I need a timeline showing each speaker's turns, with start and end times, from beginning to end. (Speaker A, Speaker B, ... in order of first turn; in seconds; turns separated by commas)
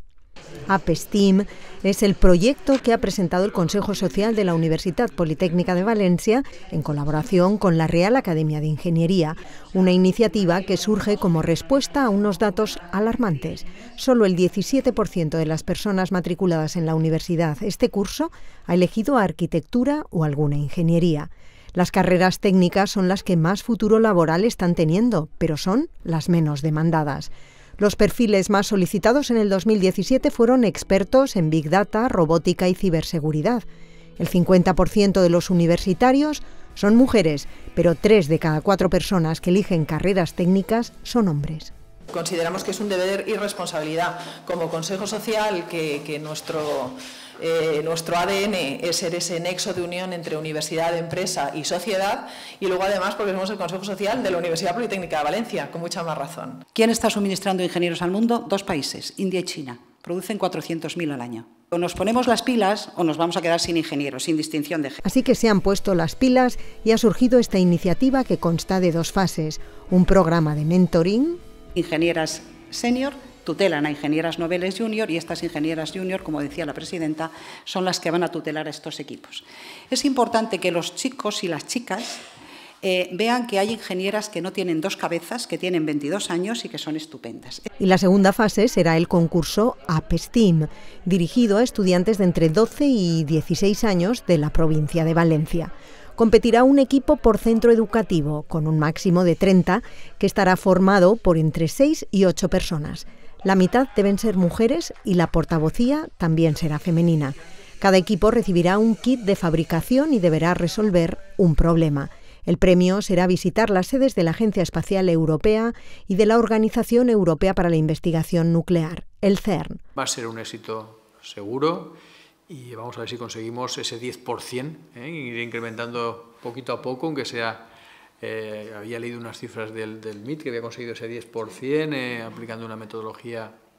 Speaker A: 0.7-33.6, Speaker A: 34.2-41.7, Speaker B: 42.1-56.6, Speaker C: 56.7-65.0, Speaker A: 65.0-71.4, Speaker C: 71.7-82.2, Speaker C: 82.8-87.6, Speaker A: 87.8-119.8, Speaker D: 119.9-122.0, Speaker D: 122.5-127.7, Speaker D: 128.2-133.5